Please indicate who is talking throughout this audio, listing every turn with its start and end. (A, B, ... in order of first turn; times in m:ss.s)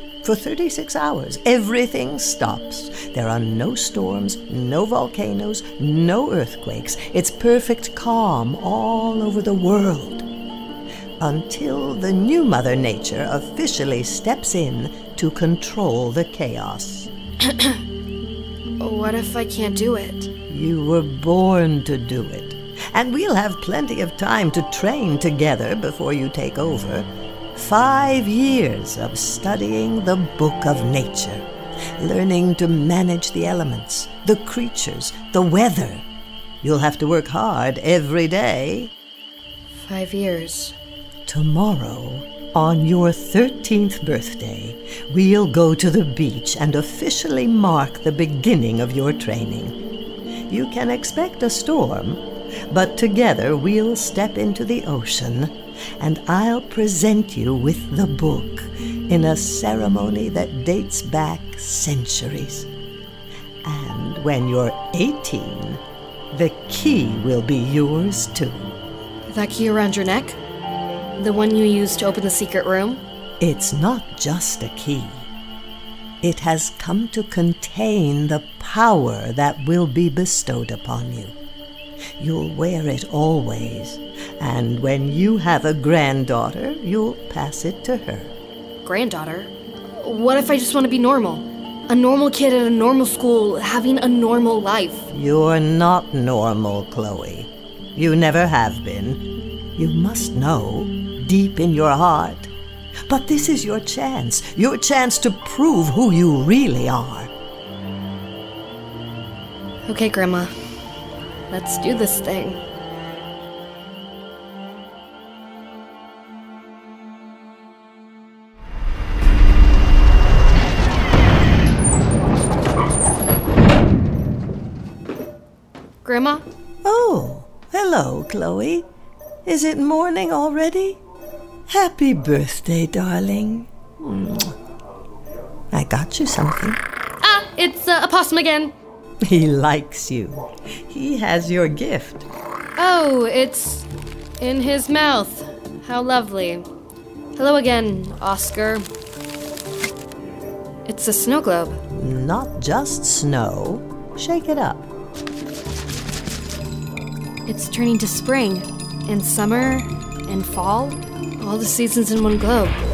0:00.2-0:10.3 A
0:11.2-0:17.1 A
0:17.4-0:17.8 B
0:18.8-0:20.3 B
0:20.5-0:31.5 A
0:32.0-0:36.0 A
0:36.6-0:38.9 A
0:39.7-0:40.8 B
0:41.3-0:49.8 A
0:50.5-1:02.7 A
1:03.6-1:08.8 A
1:09.3-1:10.4 B
1:11.2-1:13.0 B
1:13.4-1:15.3 A
1:16.2-1:21.4 A
1:22.2-1:28.3 A
1:28.8-1:35.1 B
1:35.1-1:39.2 A
1:39.8-1:42.5 A
1:43.1-1:47.3 A
1:49.9-1:50.5 B
1:51.5-1:52.6 B
2:06.0-2:06.4 B
2:06.8-2:08.9 A
2:09.4-2:11.0 A
2:11.7-2:14.6 A
2:15.7-2:16.8 A
2:17.2-2:18.7 B
2:19.2-2:22.3 A
2:22.8-2:23.9 B
2:24.4-2:26.6 B
2:27.4-2:28.9 B
2:30.8-2:31.8 B
2:31.9-2:34.9 A
2:37.5-2:42.8 B